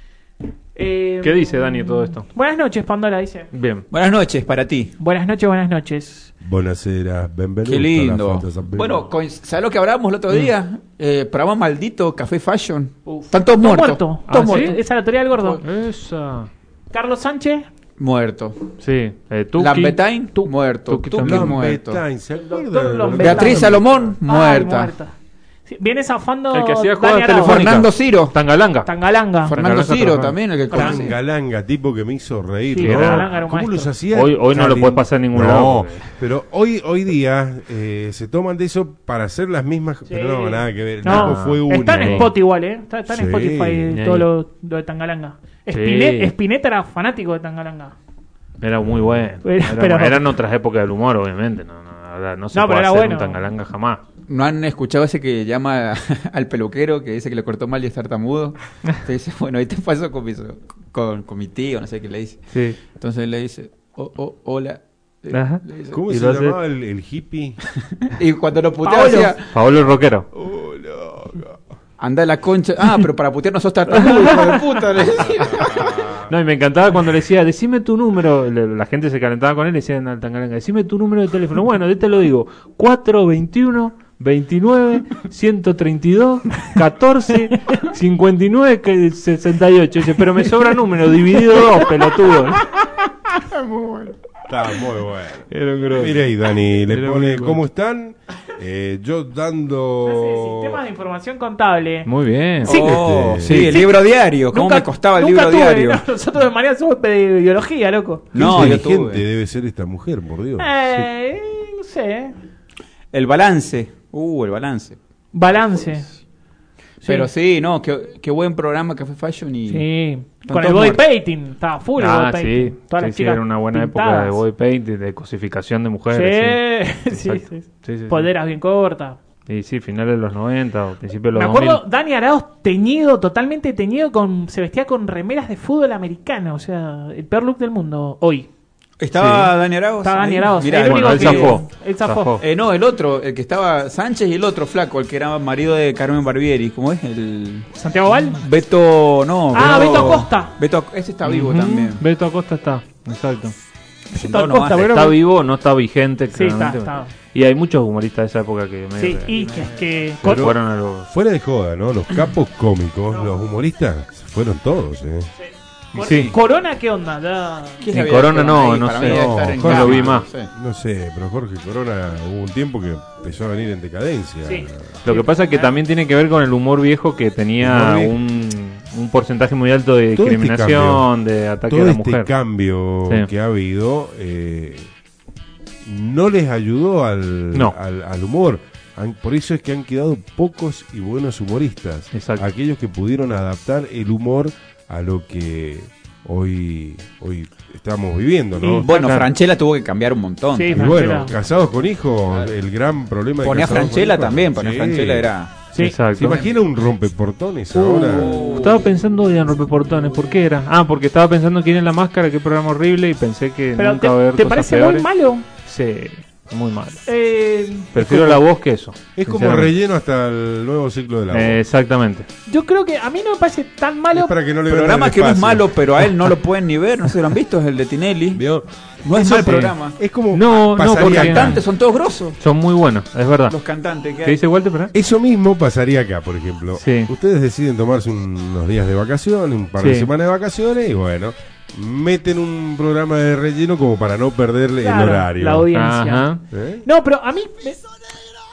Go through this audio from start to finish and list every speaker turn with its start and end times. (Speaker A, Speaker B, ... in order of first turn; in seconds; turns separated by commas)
Speaker A: 0.8-3.5, Speaker B: 1.2-2.3, Speaker B: 3.5-3.9, Speaker C: 3.9-4.9, Speaker A: 5.0-6.3, Speaker D: 6.4-9.1, Speaker C: 7.6-14.7, Speaker A: 13.1-15.6, Speaker B: 14.3-14.8, Speaker C: 15.4-15.6, Speaker B: 15.6-16.5, Speaker A: 16.9-17.7, Speaker C: 18.0-18.7, Speaker B: 18.8-20.0, Speaker C: 19.6-22.0, Speaker B: 20.9-21.6, Speaker D: 21.2-24.1, Speaker A: 22.4-25.1, Speaker C: 23.1-24.9, Speaker A: 25.7-27.7, Speaker B: 26.5-28.9, Speaker C: 27.4-28.4, Speaker A: 28.9-29.6, Speaker C: 29.4-31.2, Speaker B: 29.5-30.4, Speaker D: 30.7-42.3, Speaker A: 30.7-31.1, Speaker A: 32.7-33.9, Speaker B: 32.8-33.3, Speaker B: 34.1-36.1, Speaker A: 40.1-48.0, Speaker B: 41.0-42.3, Speaker D: 43.1-43.9, Speaker B: 43.9-44.3, Speaker B: 45.7-46.3, Speaker B: 48.6-54.0, Speaker D: 48.8-49.3, Speaker A: 49.4-50.2, Speaker A: 52.5-53.4, Speaker C: 54.3-66.0, Speaker B: 62.5-62.8, Speaker B: 65.3-66.6, Speaker D: 65.9-67.6, Speaker C: 68.0-69.5, Speaker A: 68.8-69.3, Speaker B: 69.5-70.3, Speaker D: 70.4-71.5, Speaker C: 72.0-76.1, Speaker B: 73.9-74.8, Speaker D: 75.1-76.3, Speaker B: 76.3-92.7, Speaker C: 93.3-94.2, Speaker D: 94.5-100.8, Speaker B: 95.5-96.3, Speaker B: 96.9-97.6, Speaker A: 100.0-102.1, Speaker B: 102.1-102.8, Speaker C: 102.6-106.0, Speaker A: 102.6-108.7, Speaker D: 102.8-103.8, Speaker B: 103.4-103.7, Speaker C: 108.3-109.2, Speaker D: 108.3-110.7, Speaker A: 110.6-112.3, Speaker C: 113.1-115.0, Speaker A: 115.3-116.1, Speaker A: 117.0-117.3, Speaker C: 117.0-119.9, Speaker A: 119.7-124.4, Speaker C: 120.4-121.0, Speaker B: 122.0-128.3, Speaker A: 126.1-129.2, Speaker B: 129.5-131.8, Speaker A: 131.3-138.5, Speaker C: 139.0-141.6, Speaker B: 139.2-139.5, Speaker A: 140.0-142.4, Speaker B: 140.8-142.4, Speaker C: 142.4-147.7, Speaker A: 147.8-148.4, Speaker C: 148.3-152.0, Speaker A: 149.5-150.5, Speaker B: 149.5-150.2, Speaker B: 151.2-153.6, Speaker A: 154.1-155.2, Speaker C: 154.1-154.9, Speaker B: 154.7-161.1, Speaker A: 156.3-157.1, Speaker A: 159.0-160.5, Speaker D: 160.2-165.3, Speaker A: 165.4-167.8, Speaker C: 165.9-166.4, Speaker B: 166.0-166.3, Speaker C: 167.8-170.5, Speaker B: 167.9-170.3, Speaker D: 169.0-175.0, Speaker A: 174.4-175.7, Speaker B: 175.1-182.3, Speaker D: 177.6-178.2, Speaker D: 180.2-181.1, Speaker D: 181.7-184.9, Speaker D: 185.8-198.9, Speaker B: 192.1-192.5, Speaker C: 198.6-201.0, Speaker B: 198.8-199.3, Speaker A: 200.5-201.3, Speaker D: 200.7-205.3, Speaker C: 203.4-205.6, Speaker B: 205.8-206.4, Speaker D: 205.8-208.4, Speaker A: 207.8-208.3, Speaker C: 207.8-208.9, Speaker B: 208.5-215.1, Speaker A: 213.8-215.4, Speaker B: 215.7-217.0, Speaker A: 217.1-218.2, Speaker B: 217.9-219.7, Speaker D: 219.2-221.6, Speaker B: 221.3-222.3, Speaker A: 222.5-224.3, Speaker D: 224.1-225.7, Speaker C: 224.7-228.4, Speaker D: 228.3-231.6, Speaker C: 229.0-230.0, Speaker B: 229.4-229.7, Speaker B: 230.3-231.7, Speaker C: 230.9-232.4, Speaker B: 232.4-233.6, Speaker C: 233.5-234.4, Speaker B: 234.2-234.9, Speaker D: 234.9-245.7, Speaker B: 236.8-237.1, Speaker B: 239.8-240.1, Speaker A: 244.8-247.8, Speaker B: 245.7-246.4, Speaker D: 246.5-246.8